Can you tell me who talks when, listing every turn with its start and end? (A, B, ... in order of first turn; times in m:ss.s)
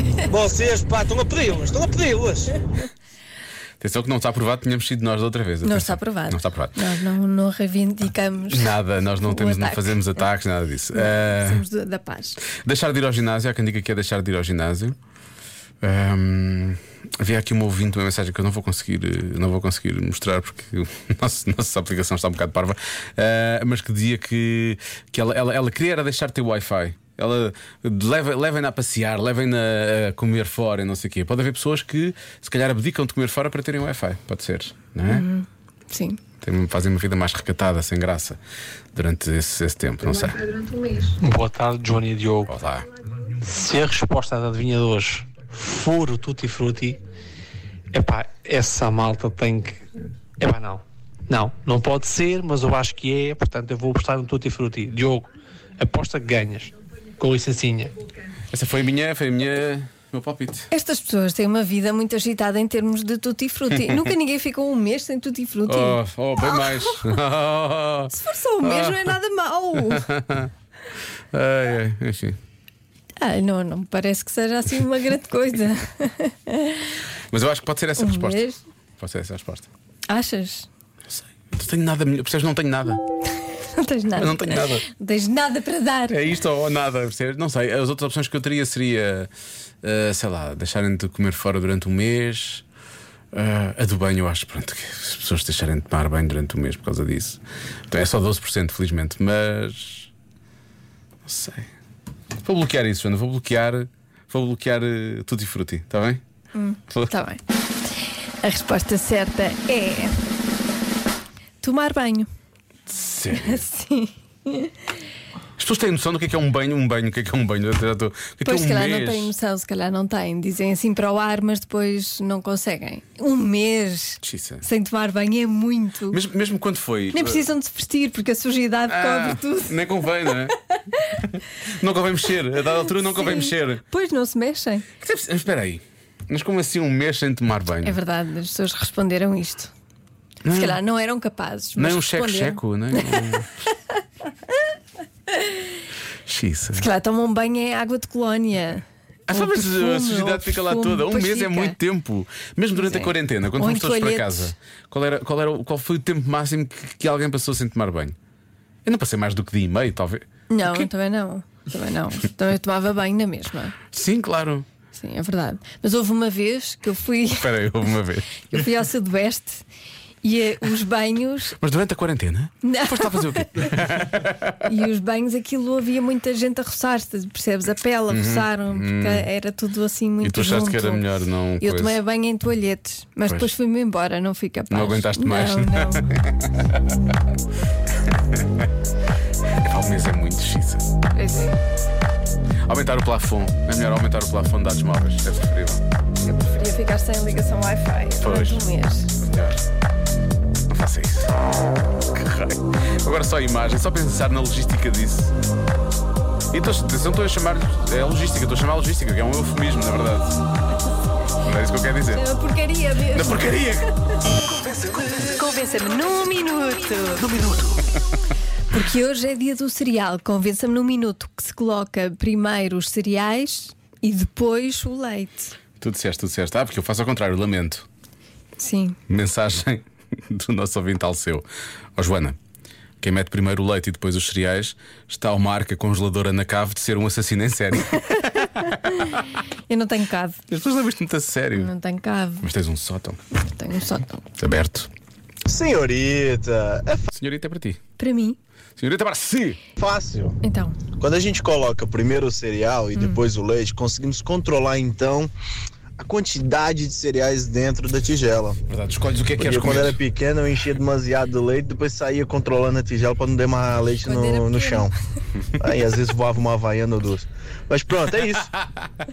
0:00.3-0:02.5 A
0:03.8-0:06.7 B
0:05.6-0:10.3 C
0:08.5-0:11.6 B
0:11.0-0:12.4 C
0:12.6-0:15.0 B
0:15.8-0:35.3 B
0:35.1-0:36.2 C
0:36.4-0:38.4 B
0:38.9-0:40.4 B
0:40.4-0:41.1 C
0:41.2-0:42.5 D
0:42.5-0:42.9 B
0:43.4-0:47.0 D
0:47.9-0:49.8 D
0:50.4-0:57.9 D
0:58.5-1:00.7 B
1:00.7-1:07.1 C
1:05.7-1:09.1 B
1:08.1-1:10.1 C
1:09.9-1:10.5 B
1:11.3-1:12.4 B
1:13.2-1:16.9 C
1:17.3-1:18.4 B
1:18.0-1:18.6 C
1:19.0-1:19.7 B
1:20.1-1:20.7 C
1:21.1-1:23.0 B
1:23.7-1:26.2 C
1:24.2-1:24.8 B
1:26.1-1:29.3 B
1:29.8-1:32.6 B
1:33.3-1:40.1 B
1:41.2-1:41.7 B
1:42.4-1:46.2 B
1:46.6-1:47.4 C
1:48.4-1:50.2 C
1:51.6-1:52.3 C
1:52.9-1:53.6 B
1:53.4-1:54.7 C
1:55.6-1:59.3 B
1:58.4-2:06.2 C
2:04.2-2:04.6 B
2:06.1-2:07.4 B
2:07.1-2:09.8 C
2:08.9-2:10.6 B
2:11.2-2:13.8 B
2:13.0-2:14.9 C
2:15.0-2:18.0 B
2:17.8-2:19.7 C
2:20.4-2:20.8 B
2:20.5-2:23.2 C
2:21.8-2:23.5 B
2:26.3-2:26.9 B
2:26.8-2:31.8 C
2:29.3-2:38.2 B
2:32.8-2:34.5 C
2:38.8-2:40.9 B
2:40.5-2:43.8 C
2:43.9-2:44.7 B
2:45.0-2:47.5 C
2:47.4-2:48.5 B
2:48.5-2:49.6 C
2:50.2-2:51.6 C
2:51.6-2:54.6 B
2:52.6-2:53.5 C
2:54.6-3:01.1 C
2:58.1-2:59.3 B
3:00.2-3:02.0 B
3:01.6-3:06.0 C
3:03.3-3:03.5 B
3:04.7-3:06.6 B
3:08.1-3:08.7 B
3:09.6-3:10.8 B
3:11.1-3:11.6 C
3:12.7-3:15.8 B
3:16.2-3:19.1 C
3:18.2-3:18.7 B
3:19.2-3:19.6 B
3:20.7-3:21.4 B
3:22.1-3:25.3 B
3:26.5-3:30.4 B
3:31.4-3:32.2 B
3:32.1-3:33.6 C
3:33.1-3:33.9 B
3:34.4-3:35.3 B
3:35.1-3:37.3 C
3:37.3-3:37.8 B
3:38.7-3:45.5 C
3:45.8-3:47.9 B
3:48.6-3:49.0 C
3:49.1-3:51.4 B
3:52.0-3:52.4 B
3:53.0-3:58.7 B
3:59.7-4:00.4 C
4:00.5-4:01.7 B
4:01.6-4:02.5 C
4:02.4-4:03.2 B
4:03.3-4:04.3 C
4:04.4-4:04.9 B
4:05.5-4:07.1 E
4:07.1-4:07.8 B
4:08.0-4:08.4 C
4:08.8-4:09.6 B
4:09.8-4:10.4 E
4:10.4-4:10.8 C
4:11.0-4:15.3 E
4:16.0-4:18.6 E
4:18.7-4:20.0 B
4:19.4-4:24.9 E
4:24.0-4:24.9 C
4:25.6-4:28.5 E
4:28.4-4:28.9 B